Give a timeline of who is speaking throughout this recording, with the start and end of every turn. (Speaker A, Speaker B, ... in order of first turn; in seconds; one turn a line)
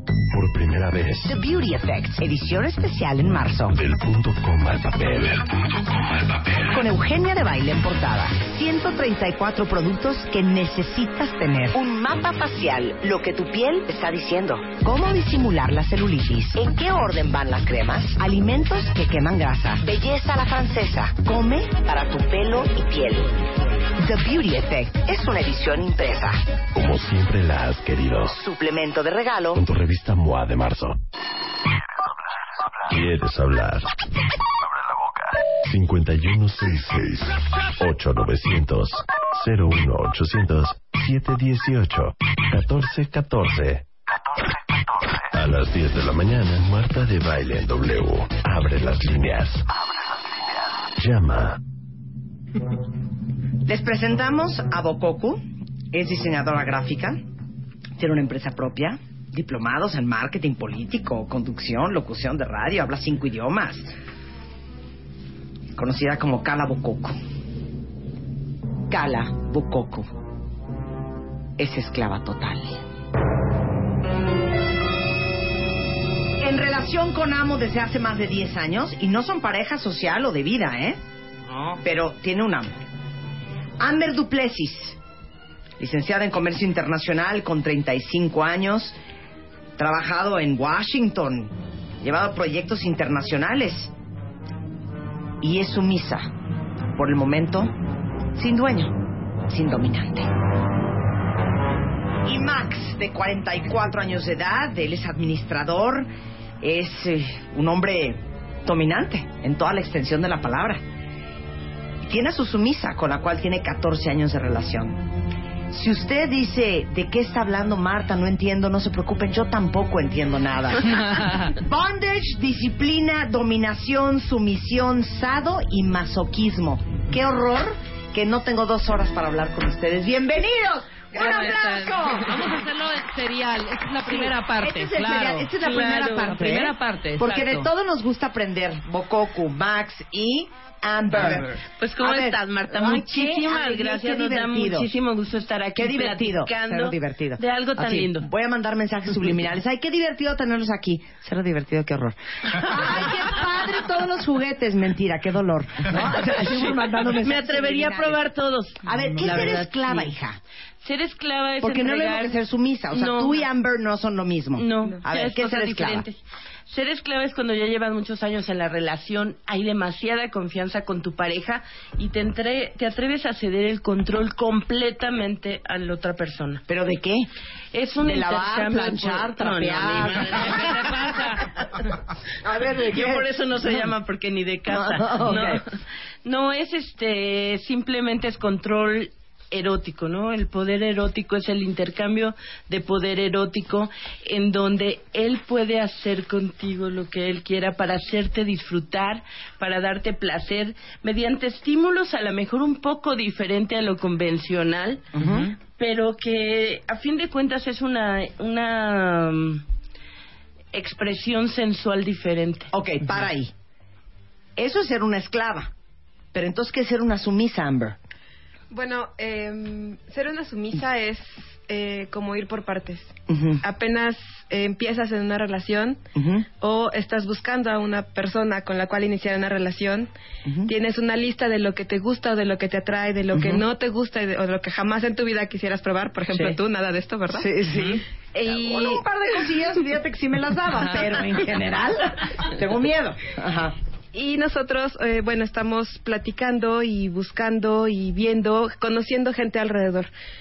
Speaker A: 0.3-1.4
Speaker B: 1.2-3.8
Speaker A: 3.7-6.8
Speaker B: 6.7-26.4
Speaker A: 26.7-28.4
Speaker B: 28.2-29.6
Speaker A: 29.5-31.0
Speaker A: 32.8-33.9
Speaker A: 34.6-49.7
Speaker A: 51.0-51.6
Speaker B: 53.6-57.2
Speaker B: 58.0-63.9
Speaker B: 65.8-67.2
Speaker B: 68.9-70.1
Speaker B: 71.6-72.8
Speaker B: 76.4-81.0
Speaker C: 81.5-81.8
Speaker B: 81.8-82.8
Speaker B: 83.8-85.0
Speaker B: 85.8-89.0
Speaker B: 89.8-93.9
Speaker B: 95.4-96.3
Speaker B: 97.0-97.7
Speaker B: 98.3-100.3
Speaker B: 102.2-106.1
Speaker B: 106.6-110.8
Speaker B: 112.0-115.1
Speaker B: 115.7-132.4
Speaker C: 121.0-121.5
Speaker D: 131.1-132.4
Speaker C: 132.2-135.7
Speaker B: 134.0-144.9
Speaker D: 135.6-136.4
Speaker C: 136.2-137.7
Speaker D: 141.2-148.3
Speaker B: 145.8-158.2
Speaker D: 156.5-160.1
Speaker B: 158.8-160.4
Speaker D: 160.8-162.4
Speaker B: 161.6-166.1
Speaker D: 162.9-163.4
Speaker D: 164.6-176.6
Speaker B: 176.7-177.3
Speaker D: 177.7-181.8
Speaker B: 178.0-180.7
Speaker C: 180.5-181.5
Speaker B: 182.4-183.3
Speaker D: 182.8-185.6
Speaker B: 184.7-185.6
Speaker D: 186.2-209.6
Speaker B: 205.1-205.5
Speaker C: 205.2-205.5
Speaker D: 210.7-212.7
Speaker B: 212.7-213.5
Speaker B: 214.6-215.7
Speaker B: 216.3-218.0
Speaker E: 218.7-226.0
Speaker B: 223.3-223.6
Speaker B: 226.2-226.5
Speaker E: 226.6-230.1
Speaker B: 230.4-230.7
Speaker E: 230.7-237.5
Speaker B: 233.3-233.7
Speaker B: 236.3-236.6
Speaker B: 237.3-243.8
Speaker E: 238.4-239.0
Speaker E: 244.1-250.1